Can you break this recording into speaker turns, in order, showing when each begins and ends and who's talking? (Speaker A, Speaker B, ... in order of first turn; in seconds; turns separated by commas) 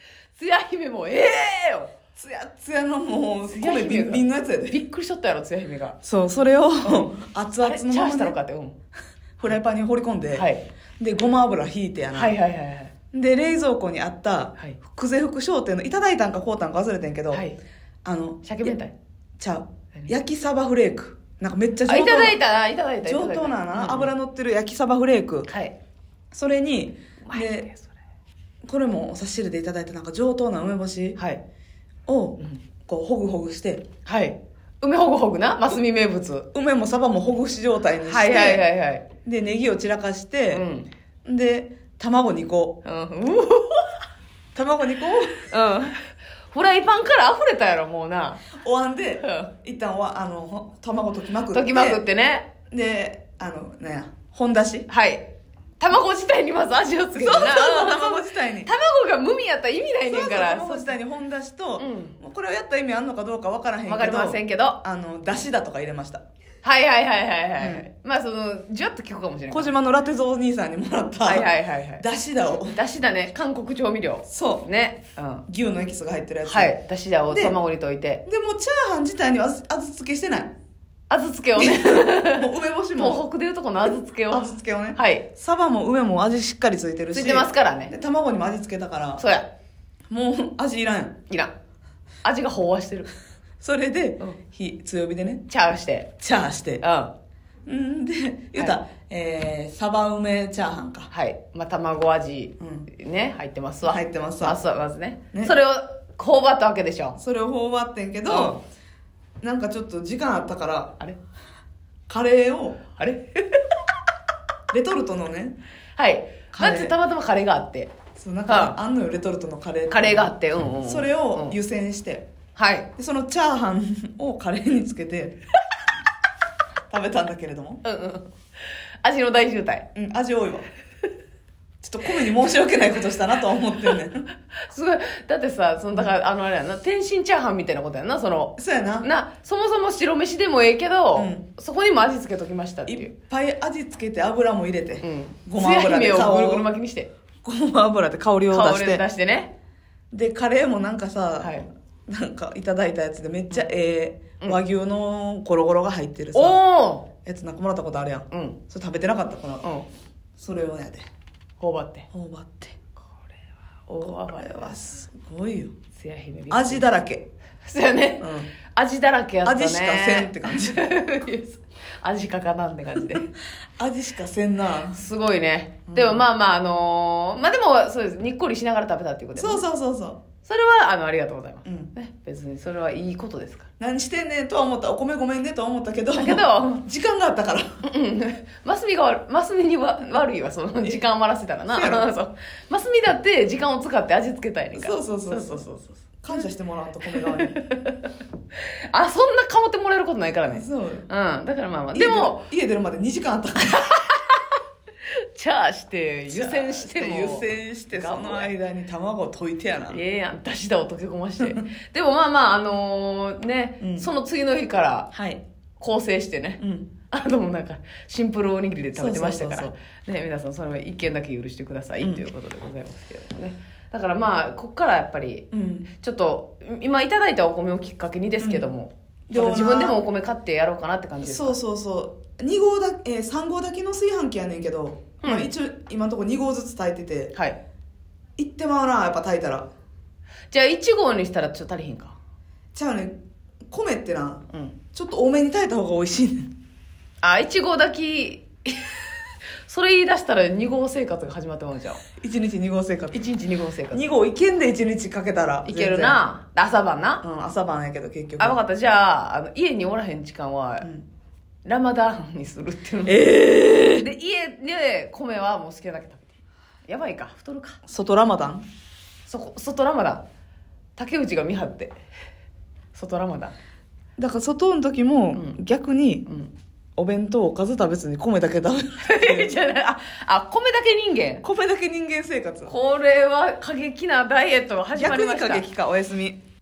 Speaker A: 0.4-1.9, Speaker B: 2.1-4.8, Speaker A: 3.5-6.0, Speaker B: 6.0-8.4, Speaker A: 6.8-8.8, Speaker B: 9.4-10.5, Speaker A: 10.3-10.6, Speaker B: 11.0-12.4, Speaker A: 12.1-12.9, Speaker B: 13.1-17.4, Speaker A: 17.3-17.6, Speaker B: 18.0-18.8, Speaker A: 18.4-18.9, Speaker B: 19.4-22.4, Speaker A: 21.9-24.1, Speaker B: 23.0-25.5, Speaker A: 25.5-25.7, Speaker B: 26.3-27.7, Speaker A: 27.3-27.9, Speaker B: 28.6-31.2, Speaker A: 31.2-31.4, Speaker B: 32.1-33.9, Speaker A: 34.1-36.5, Speaker B: 36.5-38.7, Speaker A: 38.0-39.1, Speaker B: 39.2-40.6, Speaker A: 40.5-40.9, Speaker B: 41.2-42.8, Speaker A: 42.8-44.0, Speaker B: 44.5-45.5, Speaker A: 45.5-48.5, Speaker B: 48.6-52.0, Speaker A: 49.2-49.5, Speaker A: 51.5-52.5, Speaker B: 52.7-54.9, Speaker A: 54.9-61.0, Speaker B: 57.1-58.7, Speaker B: 60.1-66.2, Speaker A: 61.8-62.2, Speaker A: 63.9-64.8, Speaker A: 66.6-69.7, Speaker B: 67.6-67.9, Speaker B: 69.5-72.8, Speaker A: 71.2-72.0, Speaker A: 72.7-75.5, Speaker B: 74.3-74.7, Speaker B: 75.5-76.7, Speaker A: 76.4-78.2, Speaker B: 77.3-77.6, Speaker B: 78.3-80.5, Speaker A: 81.1-85.3, Speaker B: 81.6-83.2, Speaker B: 83.9-89.2, Speaker A: 87.1-87.9, Speaker A: 89.2-89.5, Speaker B: 90.1-91.2, Speaker A: 92.2-93.1, Speaker B: 93.6-95.4, Speaker A: 95.5-96.1, Speaker B: 96.2-96.8, Speaker A: 96.8-97.1, Speaker B: 97.7-101.1, Speaker A: 101.1-107.2, Speaker B: 102.6-102.9, Speaker B: 103.8-104.6, Speaker B: 107.2-108.6, Speaker A: 108.3-108.6, Speaker B: 109.4-111.0, Speaker B: 112.1-112.8, Speaker A: 113.0-113.8, Speaker B: 114.7-115.6, Speaker A: 116.0-117.9, Speaker B: 116.5-117.0, Speaker B: 118.2-122.3, Speaker A: 118.5-118.8, Speaker A: 119.9-121.6, Speaker A: 122.6-122.9, Speaker B: 123.0-125.4, Speaker B: 126.9-127.8, Speaker A: 127.8-128.3, Speaker A: 129.0-129.9, Speaker B: 129.9-130.7, Speaker B: 131.8-134.2, Speaker A: 134.7-143.1, Speaker B: 138.6-139.1, Speaker B: 141.2-141.4, Speaker B: 142.9-146.7, Speaker A: 145.0-147.1, Speaker B: 147.4-149.1, Speaker A: 148.5-149.5, Speaker B: 150.1-156.6, Speaker A: 151.4-151.7, Speaker A: 156.3-157.1, Speaker B: 157.2-159.7, Speaker A: 158.3-158.6, Speaker B: 160.4-161.1, Speaker A: 161.6-162.1, Speaker B: 162.1-162.8, Speaker A: 163.9-164.8, Speaker B: 164.0-165.8, Speaker A: 165.9-166.9, Speaker B: 166.5-167.3, Speaker A: 167.7-173.3, Speaker B: 168.2-168.5, Speaker B: 169.4-170.9, Speaker B: 173.8-175.0, Speaker A: 174.9-179.6, Speaker B: 175.9-176.2, Speaker B: 179.3-180.2, Speaker A: 180.4-183.7, Speaker B: 181.7-181.9, Speaker B: 183.8-187.7, Speaker A: 186.2-186.8, Speaker A: 187.8-196.5, Speaker B: 191.7-192.1, Speaker B: 194.8-195.7, Speaker B: 196.2-197.6, Speaker A: 197.0-198.1, Speaker A: 198.9-202.5, Speaker B: 200.5-201.1, Speaker B: 201.9-203.9, Speaker A: 203.9-204.5, Speaker A: 205.3-208.5, Speaker B: 206.3-210.0, Speaker A: 209.9-215.1, Speaker B: 213.8-214.1, Speaker B: 215.1-215.4, Speaker A: 215.8-231.6, Speaker B: 216.6-216.9, Speaker B: 218.9-219.7, Speaker B: 225.5-225.9, Speaker B: 228.4-228.7, Speaker B: 229.3-230.0, Speaker B: 231.2-237.3, Speaker A: 235.2-235.5, Speaker B: 238.4-239.7, Speaker A: 240.5-242.2, Speaker B: 242.7-246.5, Speaker A: 247.2-249.1, Speaker A: 249.7-252.0, Speaker B: 252.2-253.2, Speaker A: 253.1-254.0, Speaker B: 253.9-256.2, Speaker A: 255.7-257.2, Speaker B: 257.2-258.6, Speaker A: 258.4-260.9, Speaker B: 260.8-261.1, Speaker A: 261.6-263.2, Speaker B: 263.1-264.1, Speaker A: 264.0-266.4, Speaker A: 266.9-267.8, Speaker B: 267.9-268.6, Speaker A: 269.3-270.2, Speaker A: 271.0-271.9, Speaker A: 272.9-273.5, Speaker B: 274.2-276.3, Speaker A: 275.3-275.6, Speaker A: 276.3-276.5, Speaker B: 277.0-279.6, Speaker A: 279.0-281.4, Speaker B: 281.4-282.8, Speaker A: 282.7-285.7, Speaker B: 284.9-286.4